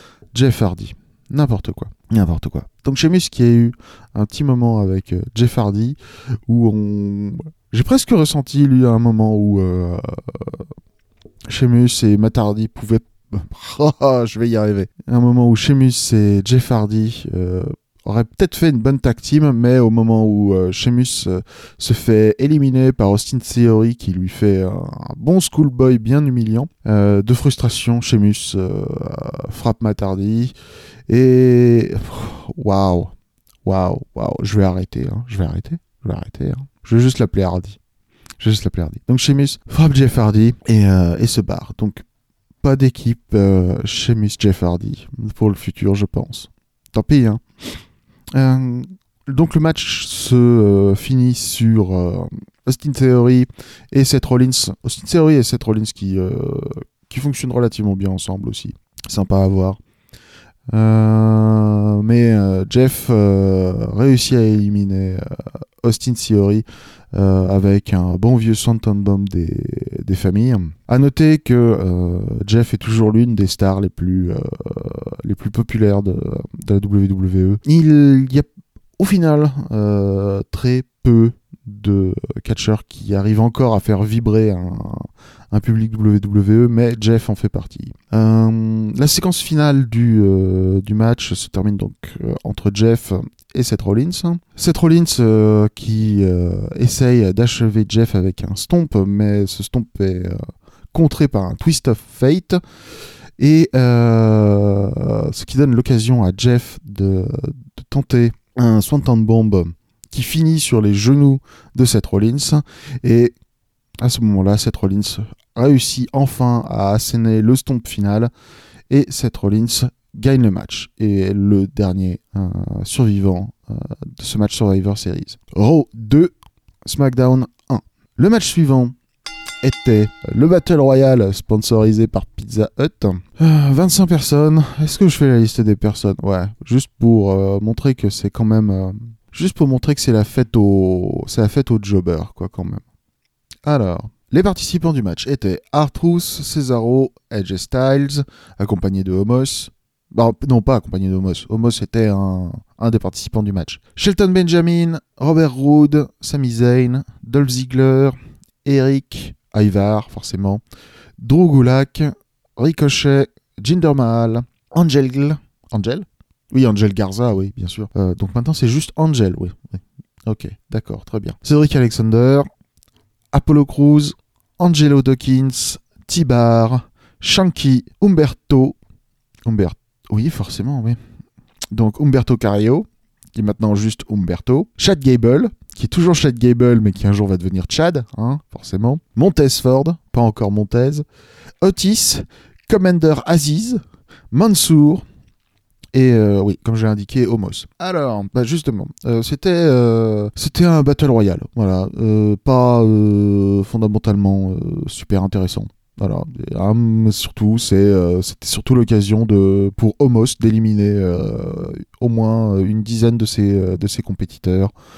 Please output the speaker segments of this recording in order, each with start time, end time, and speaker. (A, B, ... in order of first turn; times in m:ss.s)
0:00.3-0:10.6 A
0:11.5-0:30.5 A
0:31.1-0:33.1 A
0:33.6-0:37.8 A
0:38.4-0:42.0 A
0:42.6-0:47.4 A
0:48.3-0:59.8 A
1:00.7-1:18.5 A
1:19.0-1:40.4 A
1:40.9-1:42.6 A
1:43.4-1:53.3 A
1:54.0-1:58.3 A
1:58.9-2:06.3 A
2:06.8-2:08.9 A
2:09.6-2:22.8 A
2:23.6-2:40.6 A
2:41.2-2:52.5 A
2:53.3-2:58.8 A
2:59.4-3:01.0 A
3:01.7-3:11.0 A
3:11.6-3:13.8 A
3:14.3-3:15.0 A
3:15.9-3:34.7 A